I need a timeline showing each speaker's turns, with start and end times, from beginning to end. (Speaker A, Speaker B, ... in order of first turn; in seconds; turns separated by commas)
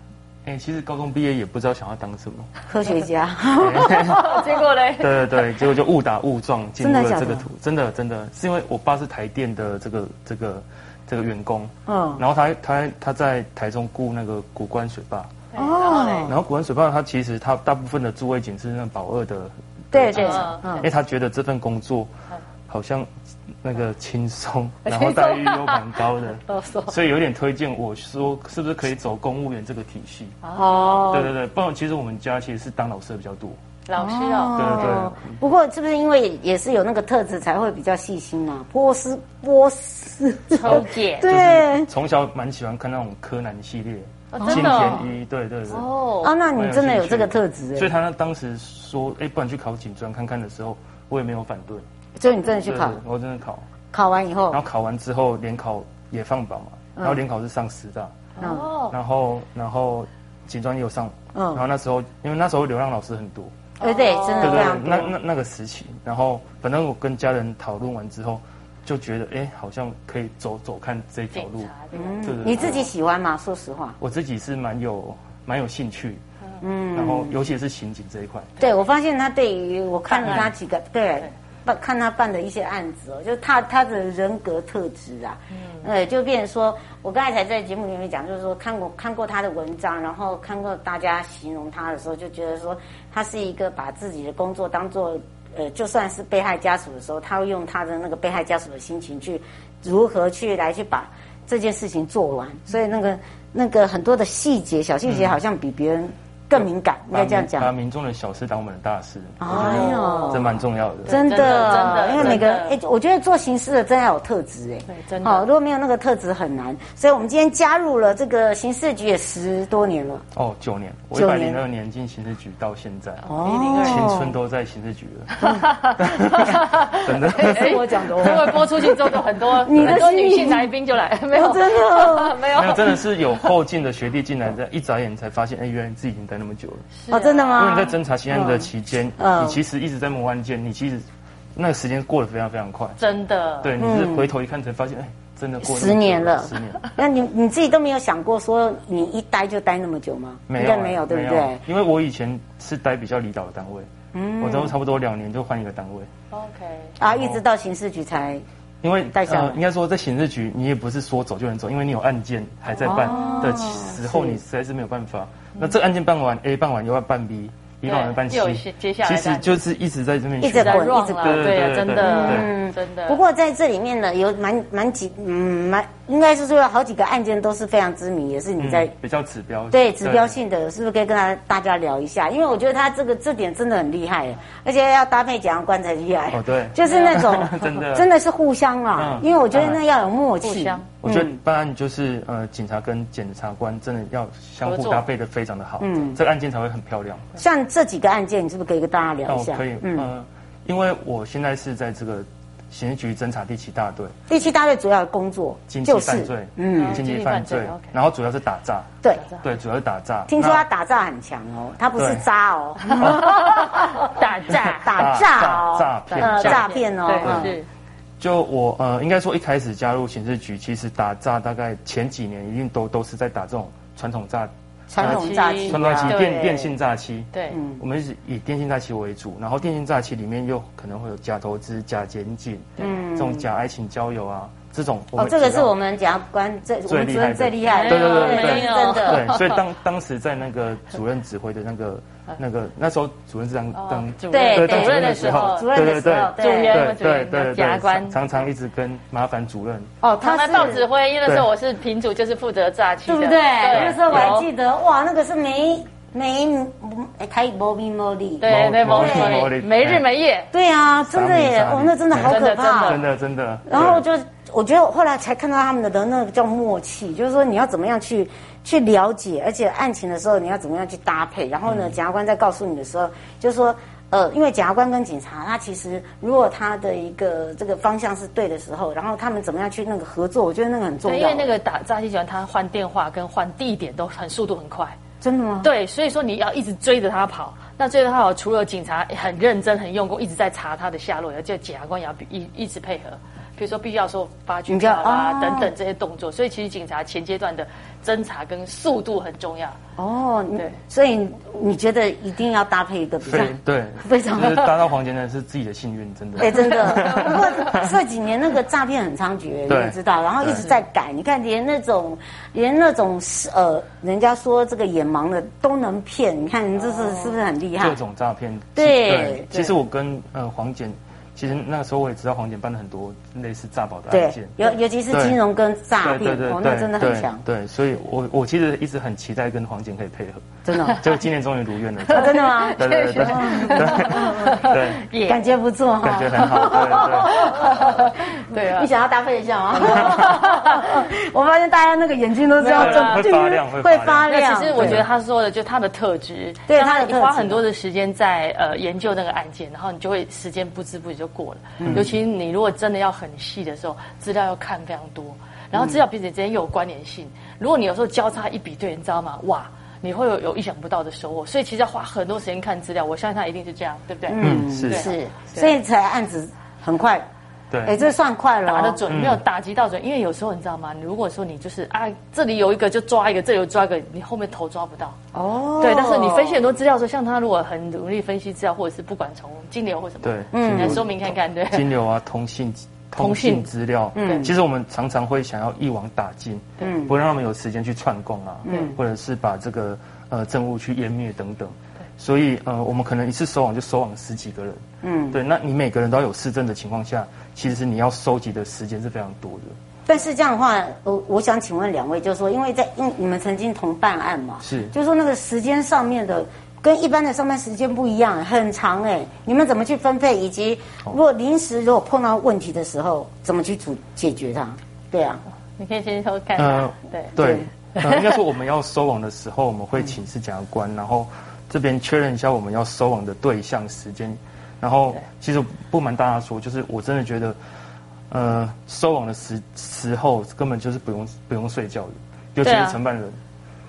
Speaker A: 0.4-2.5, Speaker B: 2.7-4.4, Speaker A: 3.6-4.4, Speaker C: 4.0-5.2, Speaker A: 5.0-15.3, Speaker B: 6.8-7.5, Speaker B: 11.9-12.2, Speaker C: 15.5-16.3, Speaker B: 15.6-16.4, Speaker A: 16.2-22.1, Speaker B: 19.9-20.9, Speaker C: 20.1-20.9, Speaker A: 22.7-23.1, Speaker A: 23.6-30.4, Speaker C: 24.9-25.9, Speaker C: 26.5-26.9, Speaker C: 30.4-31.2, Speaker B: 30.6-31.3, Speaker A: 31.1-33.5, Speaker C: 33.9-34.9, Speaker B: 34.0-41.9, Speaker A: 34.5-35.3, Speaker C: 40.5-41.3, Speaker A: 40.6-45.9, Speaker C: 44.3-45.0, Speaker B: 44.4-45.0, Speaker C: 45.7-46.3, Speaker B: 46.2-47.9, Speaker A: 46.5-51.8, Speaker B: 52.2-53.0, Speaker A: 52.6-53.6, Speaker B: 53.9-54.6, Speaker A: 54.5-58.1, Speaker C: 58.4-58.9, Speaker B: 58.4-58.6, Speaker A: 58.9-63.5, Speaker B: 61.3-61.6, Speaker C: 63.8-64.7, Speaker B: 63.8-65.1, Speaker A: 64.4-71.7, Speaker C: 71.3-72.8, Speaker B: 71.9-74.0, Speaker A: 72.2-72.8, Speaker A: 74.0-76.2, Speaker B: 76.6-77.3, Speaker A: 76.9-78.5, Speaker B: 78.6-107.7, Speaker C: 80.1-80.5, Speaker A: 80.3-80.5, Speaker A: 107.1-112.5, Speaker B: 109.4-120.2, Speaker C: 109.5-110.4, Speaker C: 111.0-112.8, Speaker C: 114.9-115.4, Speaker A: 120.3-123.2, Speaker B: 121.1-121.6, Speaker B: 123.3-124.3, Speaker C: 123.3-124.2, Speaker A: 123.8-128.6, Speaker C: 125.4-132.9, Speaker B: 127.3-128.6, Speaker B: 129.6-130.7, Speaker A: 129.7-130.0, Speaker B: 131.3-132.4, Speaker A: 132.5-136.9, Speaker C: 137.0-137.9, Speaker B: 137.1-139.6, Speaker A: 137.6-141.0, Speaker A: 141.6-143.0, Speaker C: 143.0-143.7, Speaker A: 143.6-146.8, Speaker B: 143.8-144.3, Speaker B: 145.6-151.6, Speaker A: 150.5-153.9, Speaker B: 154.1-154.8, Speaker A: 154.4-156.1, Speaker C: 156.3-156.9, Speaker B: 157.0-158.4, Speaker A: 157.1-157.4, Speaker A: 158.8-172.5, Speaker B: 159.1-159.6, Speaker B: 162.8-164.4, Speaker C: 162.9-163.6, Speaker C: 167.8-169.6, Speaker B: 170.4-178.9, Speaker C: 170.4-173.2, Speaker A: 178.6-180.4, Speaker B: 179.7-191.4, Speaker A: 186.3-188.1, Speaker C: 186.8-187.3, Speaker A: 188.9-189.8, Speaker C: 190.4-190.8, Speaker A: 191.0-197.3, Speaker C: 194.6-195.0, Speaker B: 195.8-196.2, Speaker B: 197.4-200.1, Speaker A: 199.2-204.2, Speaker B: 204.3-207.0, Speaker A: 205.7-210.6, Speaker C: 206.7-207.9, Speaker B: 210.3-217.6, Speaker A: 212.0-212.2, Speaker A: 212.9-213.8, Speaker C: 212.9-215.0, Speaker A: 214.8-216.7, Speaker C: 216.1-217.7, Speaker A: 217.2-217.5, Speaker A: 218.2-235.7, Speaker B: 224.9-226.7, Speaker C: 225.0-226.4, Speaker B: 227.5-227.8, Speaker B: 232.8-233.5, Speaker B: 235.1-239.3, Speaker A: 236.9-249.9, Speaker C: 237.7-239.6, Speaker C: 243.7-245.7, Speaker B: 244.3-246.8, Speaker C: 246.3-248.2, Speaker B: 250.0-250.8, Speaker C: 250.2-254.5, Speaker B: 253.1-259.5, Speaker A: 253.7-254.3, Speaker C: 258.4-260.5, Speaker A: 258.4-260.0, Speaker B: 260.5-263.0, Speaker A: 261.1-264.0, Speaker C: 262.1-263.0, Speaker B: 263.7-281.5, Speaker A: 271.7-271.9, Speaker C: 281.0-284.9, Speaker B: 285.2-285.7, Speaker C: 285.6-299.8, Speaker B: 294.7-295.7, Speaker B: 300.0-304.8, Speaker A: 303.2-307.9, Speaker B: 306.4-318.0, Speaker A: 309.7-310.7, Speaker A: 317.8-324.6, Speaker B: 318.8-319.7, Speaker B: 324.1-327.4, Speaker A: 325.1-325.4, Speaker A: 326.0-335.0, Speaker B: 330.6-331.0, Speaker B: 332.1-334.7, Speaker C: 332.4-335.4, Speaker B: 335.2-345.0, Speaker A: 336.0-337.4, Speaker C: 336.5-338.9, Speaker C: 339.9-340.8, Speaker C: 342.6-343.3, Speaker A: 342.7-345.0, Speaker C: 344.3-365.7, Speaker B: 346.7-347.6, Speaker B: 351.8-352.1, Speaker A: 351.8-352.1, Speaker B: 364.3-367.3, Speaker A: 364.4-365.1, Speaker B: 367.8-369.0, Speaker C: 368.6-375.1, Speaker A: 369.1-369.4, Speaker B: 375.3-376.6, Speaker C: 375.8-381.9, Speaker A: 380.2-399.7, Speaker B: 380.5-381.0, Speaker C: 383.2-383.7, Speaker B: 384.1-384.5, Speaker C: 384.2-384.5, Speaker B: 386.8-387.1, Speaker B: 388.6-389.0, Speaker B: 395.0-395.4, Speaker B: 400.1-415.4, Speaker A: 404.6-404.9, Speaker C: 415.8-417.4, Speaker A: 416.6-427.6, Speaker B: 417.4-417.7, Speaker A: 428.3-433.4, Speaker C: 432.6-433.0